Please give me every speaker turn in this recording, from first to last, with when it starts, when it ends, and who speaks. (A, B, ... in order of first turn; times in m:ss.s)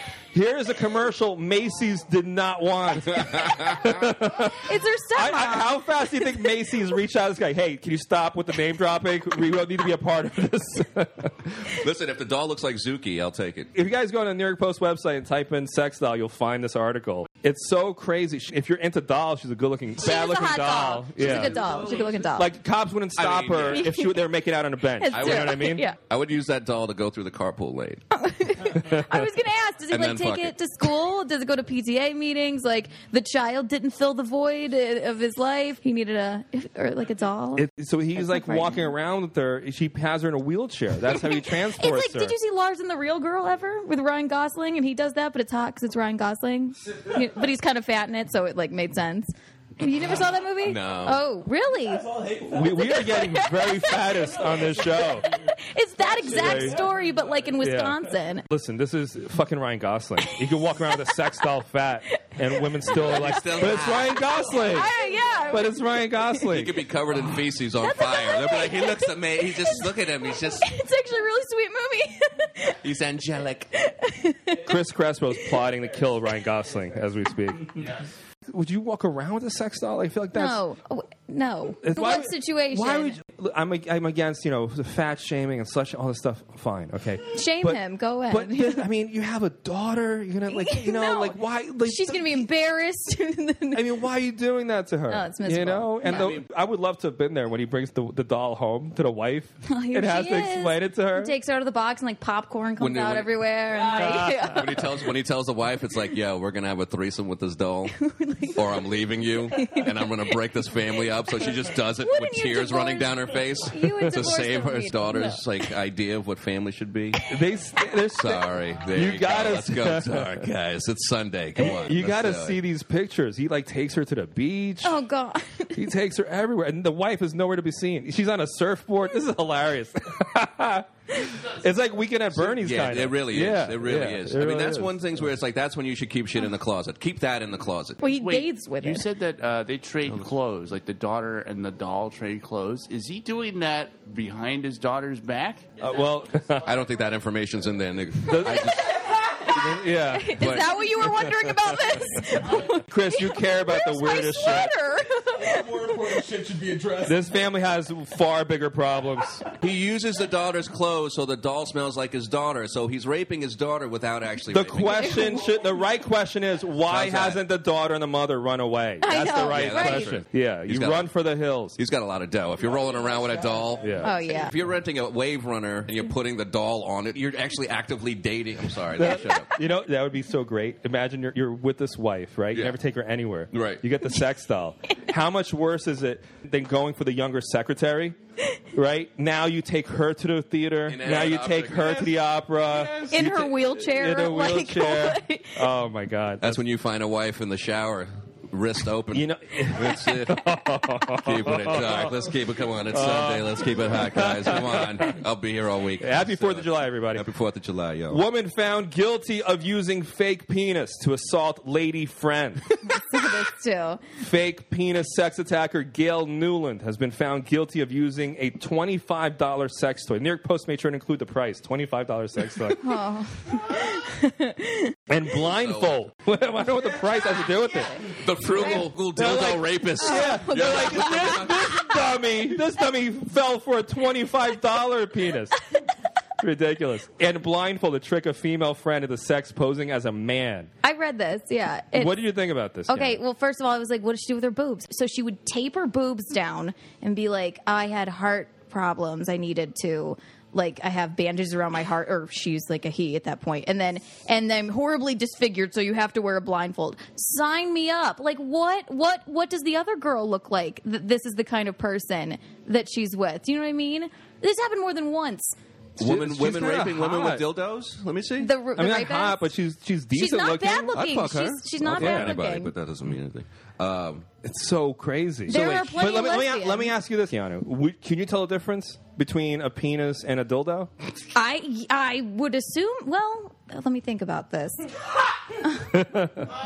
0:00.3-0:11.7 A
0:03.1-0:03.8 B
0:04.6-0:06.5 C
0:11.7-0:13.7 B
0:13.7-0:21.6 A
0:20.0-0:22.5 C
0:21.2-0:21.8 B
0:22.3-0:25.9 A
0:23.2-0:23.9 B
0:23.6-0:24.2 C
0:25.0-0:26.0 C
0:25.1-0:28.0 B
0:28.1-0:38.9 C
0:28.7-0:29.3 A
0:29.9-0:30.5 B
0:37.5-0:42.4 A
0:41.1-0:52.1 C
0:50.6-0:51.2 B
0:52.0-0:53.3 D
0:52.4-0:55.3 A
0:52.7-0:58.5 C
0:54.0-0:55.0 D
0:56.2-0:56.8 A
0:57.6-0:58.0 A
0:58.5-1:04.9 A
1:02.7-1:06.5 C
1:02.9-1:04.3 B
1:05.5-1:06.8 A
1:06.5-1:10.7 B
1:07.8-1:09.9 C
1:10.6-1:12.8 C
1:12.8-1:13.7 B
1:13.7-1:14.7 C
1:14.6-1:17.9 A
1:18.5-1:20.6 A
1:20.3-1:23.2 C
1:21.8-1:32.5 A
1:27.3-1:28.8 C
1:30.5-1:34.0 C
1:33.7-1:41.3 A
1:35.1-1:36.4 C
1:36.0-1:36.4 B
1:39.7-1:44.9 C
1:42.8-1:43.3 B
1:43.9-1:44.6 A
1:44.4-1:57.2 B
1:47.9-1:48.9 C
1:49.5-1:50.1 C
1:52.0-1:55.4 C
1:57.3-2:00.4 A
1:58.2-2:02.6 B
2:01.6-2:05.0 A
2:04.8-2:05.9 C
2:05.7-2:15.0 A
2:12.3-2:18.0 B
2:18.0-2:19.0 C
2:18.2-2:25.7 E
2:25.8-2:26.7 A
2:26.6-2:29.1 B
2:28.2-2:28.8 A
2:28.4-2:35.7 C
2:29.5-2:34.7 A
2:30.4-2:31.0 B
2:35.3-2:37.2 D
2:37.0-2:39.4 A
2:39.6-2:45.2 B
2:44.5-2:51.8 A
2:44.8-2:45.5 C
2:46.9-2:47.4 B
2:49.0-2:50.2 C
2:49.5-2:51.1 B
2:51.8-2:59.5 B
2:53.8-2:54.1 A
2:54.0-2:54.5 C
2:59.0-2:59.4 C
2:59.0-3:08.2 A
3:03.5-3:03.8 B
3:08.7-3:16.6 A
3:10.9-3:13.2 B
3:13.1-3:15.7 C
3:16.4-3:20.5 B
3:19.1-3:22.2 A
3:21.2-3:28.2 B
3:22.9-3:25.2 A
3:26.0-3:27.3 A
3:28.1-3:33.2 A
3:32.8-3:34.0 C
3:34.2-3:43.0 A
3:42.8-3:44.9 C
3:45.1-3:55.6 A
3:45.6-3:45.9 B
3:47.8-3:48.8 C
3:48.2-3:52.1 B
3:50.0-3:51.9 C
3:56.4-4:00.7 A
4:00.8-4:02.2 C
4:01.9-4:03.2 A
4:02.9-4:25.5 C
4:26.0-4:27.4 A
4:26.0-4:28.5 B
4:28.4-4:29.5 C
4:28.8-4:31.0 A
4:30.1-4:32.7 C
4:30.9-4:34.3 B
4:31.9-4:32.4 A
4:34.4-4:40.9 A
4:35.5-4:36.9 C
4:41.3-4:44.9 C
4:45.5-4:46.0 C
4:45.8-4:46.5 A